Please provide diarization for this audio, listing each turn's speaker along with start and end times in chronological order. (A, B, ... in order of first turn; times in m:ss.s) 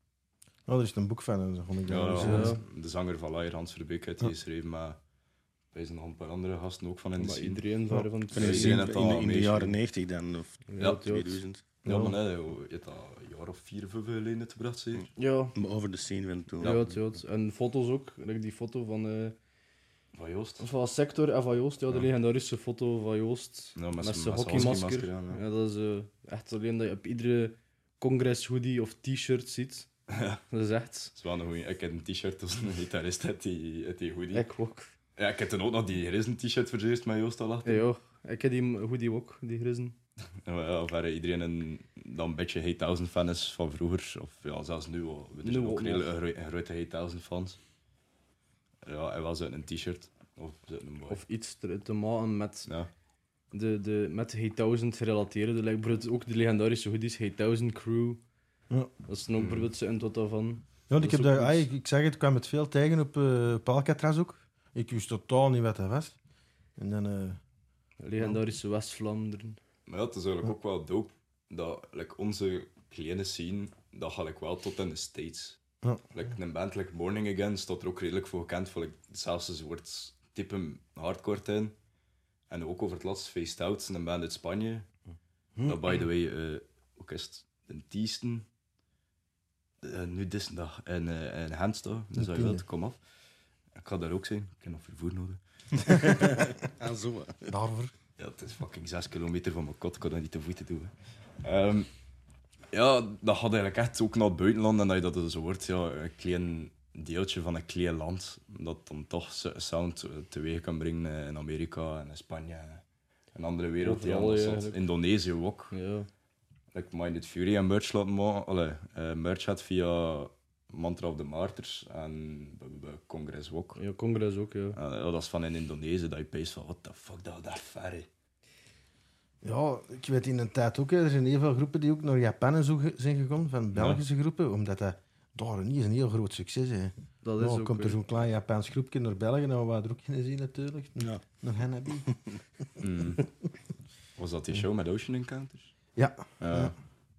0:00.7-0:02.6 A
0:01.9-0:05.0 B
0:02.2-0:02.6 C
0:05.7-0:07.6 B
0:07.2-0:08.8 C
0:08.3-0:11.6 D
0:08.3-0:09.8 B
0:10.7-0:11.4 C
0:11.8-0:15.1 B
0:11.8-0:12.2 A
0:15.2-0:15.6 C
0:15.5-0:16.9 D
0:16.6-0:19.4 C
0:20.1-0:20.7 B
0:20.6-0:29.9 C
0:23.8-0:25.4 B
0:30.1-0:30.4 B
0:30.5-0:31.1 C
0:31.1-0:34.4 B
0:34.3-0:34.9 C
0:35.2-0:37.8 B
0:37.6-0:40.0 C
0:40.4-0:47.6 B
0:45.4-0:46.1 C
0:48.8-0:51.2 B
0:51.1-0:52.7 C
0:53.5-0:58.2 C
0:59.0-1:01.7 C
0:59.4-0:59.7 B
1:00.9-1:06.2 A
1:06.8-1:07.4 A
1:08.0-1:09.6 C
1:09.9-1:15.6 B
1:16.1-1:21.7 B
1:22.5-1:24.9 B
1:25.6-1:28.5 B
1:29.8-1:33.0 B
1:32.2-1:32.6 A
1:33.8-1:36.2 B
1:35.9-1:37.5 D
1:37.5-1:37.9 A
1:38.2-1:40.9 B
1:41.4-1:41.9 B
1:42.7-1:52.8 B
1:53.3-1:55.7 B
1:53.8-1:54.8 C
1:55.7-1:56.1 C
1:56.7-2:03.8 B
2:03.8-2:04.8 C
2:04.7-2:08.1 B
2:09.4-2:22.1 A
2:13.7-2:14.0 B
2:17.2-2:18.0 C
2:22.8-2:23.3 B
2:24.2-2:25.7 B
2:26.0-2:26.7 A
2:26.4-2:26.7 B